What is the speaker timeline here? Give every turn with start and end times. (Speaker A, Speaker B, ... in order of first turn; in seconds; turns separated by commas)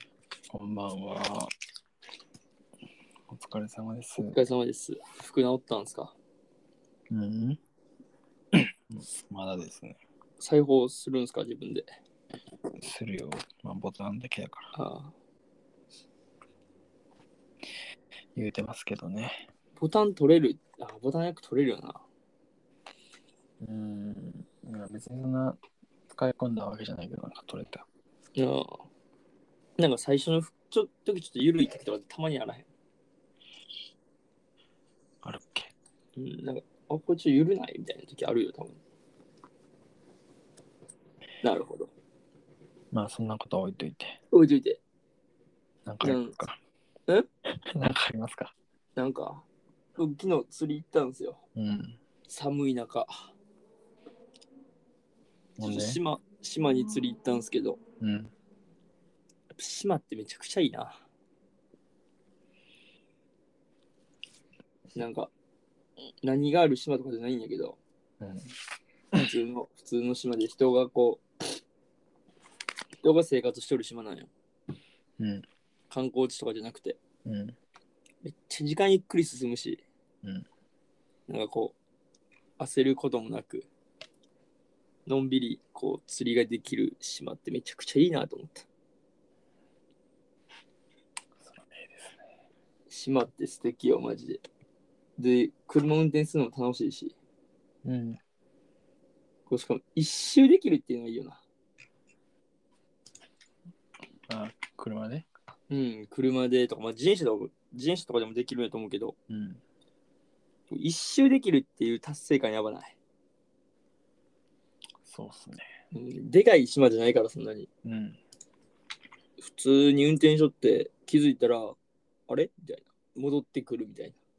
Speaker A: 0.5-1.5, Speaker A: 3.3-4.4, Speaker B: 4.2-6.2, Speaker A: 7.1-7.6, Speaker A: 8.5-10.0, Speaker B: 10.4-11.8, Speaker A: 12.8-14.7, Speaker B: 14.8-15.1, Speaker A: 18.3-19.5, Speaker B: 19.8-22.1, Speaker A: 23.6-25.6, Speaker A: 26.1-27.8, Speaker B: 28.4-28.8, Speaker B: 29.8-32.7, Speaker A: 35.2-35.7, Speaker B: 36.2-38.8, Speaker B: 41.4-41.9, Speaker A: 42.9-44.2, Speaker B: 44.3-44.8, Speaker A: 45.9-46.6, Speaker B: 46.0-46.4, Speaker A: 47.8-48.5, Speaker B: 49.0-51.4, Speaker A: 51.6-52.0, Speaker B: 52.3-53.3, Speaker B: 55.6-57.8, Speaker A: 55.6-56.0, Speaker A: 58.0-58.3, Speaker B: 59.5-61.0, Speaker B: 64.9-65.3, Speaker B: 66.2-67.8, Speaker A: 68.2-68.5, Speaker B: 69.2-71.2, Speaker B: 73.0-74.3, Speaker A: 75.2-75.5, Speaker B: 75.9-77.0, Speaker A: 77.2-77.6, Speaker B: 78.2-79.8, Speaker B: 81.3-81.8, Speaker B: 82.6-83.7, Speaker B: 85.1-88.7, Speaker A: 91.4-92.2, Speaker B: 92.9-94.4, Speaker B: 95.2-97.2, Speaker A: 97.8-98.2, Speaker B: 99.5-101.4, Speaker A: 104.3-105.3, Speaker B: 105.7-109.1, Speaker A: 109.3-109.6, Speaker B: 110.7-113.0, Speaker A: 115.0-115.6, Speaker B: 115.9-117.7, Speaker A: 117.8-118.2, Speaker B: 119.4-121.8, Speaker B: 122.3-124.2